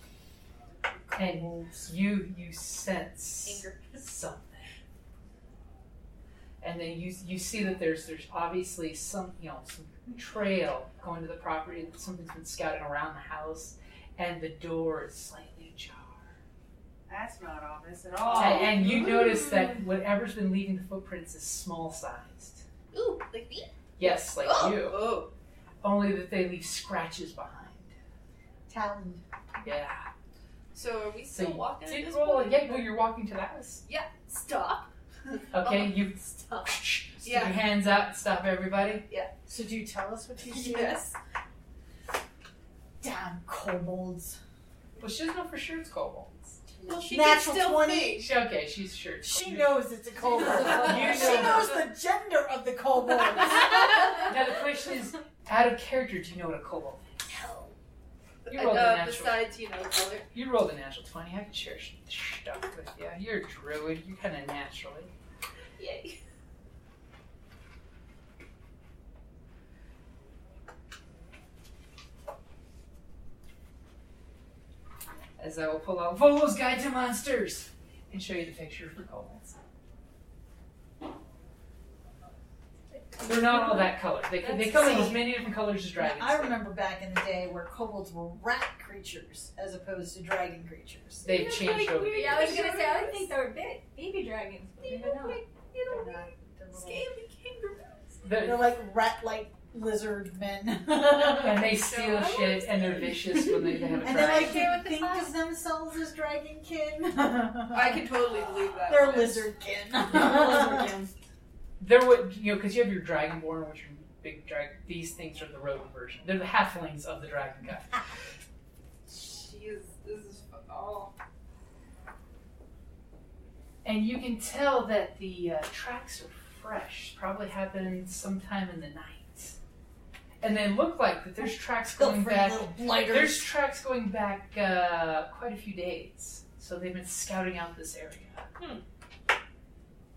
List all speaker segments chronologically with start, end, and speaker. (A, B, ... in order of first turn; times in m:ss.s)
0:01.1-0:01.8 A
0:01.1-0:04.7 B
0:03.4-0:04.2 C
0:06.6-0:16.4 B
0:17.1-0:19.1 D
0:18.3-0:22.6 B
0:22.9-0:25.3 C
0:24.0-0:25.1 B
0:25.8-0:27.9 B
0:28.7-0:29.2 A
0:29.6-0:30.1 B
0:30.7-0:33.0 C
0:31.3-0:33.8 B
0:33.8-0:37.6 C
0:35.5-0:39.0 B
0:39.5-0:41.0 A
0:40.5-0:41.2 C
0:43.0-0:44.4 A
0:45.0-0:46.6 B
0:46.8-0:48.3 C
0:46.9-0:48.2 A
0:48.2-0:51.7 B
0:49.2-0:54.0 A
0:50.3-0:51.7 C
0:53.6-0:54.1 C
0:54.2-0:57.1 B
0:57.3-0:57.7 C
0:58.4-1:00.3 C
0:58.5-0:59.4 B
1:00.3-1:05.1 B
1:05.8-1:06.2 C
1:15.4-1:19.6 B
1:22.9-1:23.8 E
1:23.2-1:26.6 B
1:24.4-1:25.2 C
1:24.7-1:25.3 A
1:26.0-1:31.2 A
1:31.2-1:32.7 B
1:31.3-1:33.3 C
1:31.3-1:35.4 E
1:34.8-1:38.2 C
1:35.9-1:37.0 A
1:38.2-1:38.7 B
1:38.4-1:41.8 A
1:41.3-1:44.6 B
1:41.8-1:43.1 C
1:44.0-1:48.1 A
1:44.0-1:45.2 C
1:44.6-1:45.0 E
1:47.7-1:49.5 C
1:48.9-1:50.9 A
1:50.2-1:51.1 E
1:51.8-1:58.0 B
1:59.1-2:01.1 C
2:03.8-2:09.6 B
2:10.4-2:18.5 B
2:11.9-2:13.5 A
2:18.6-2:18.8 D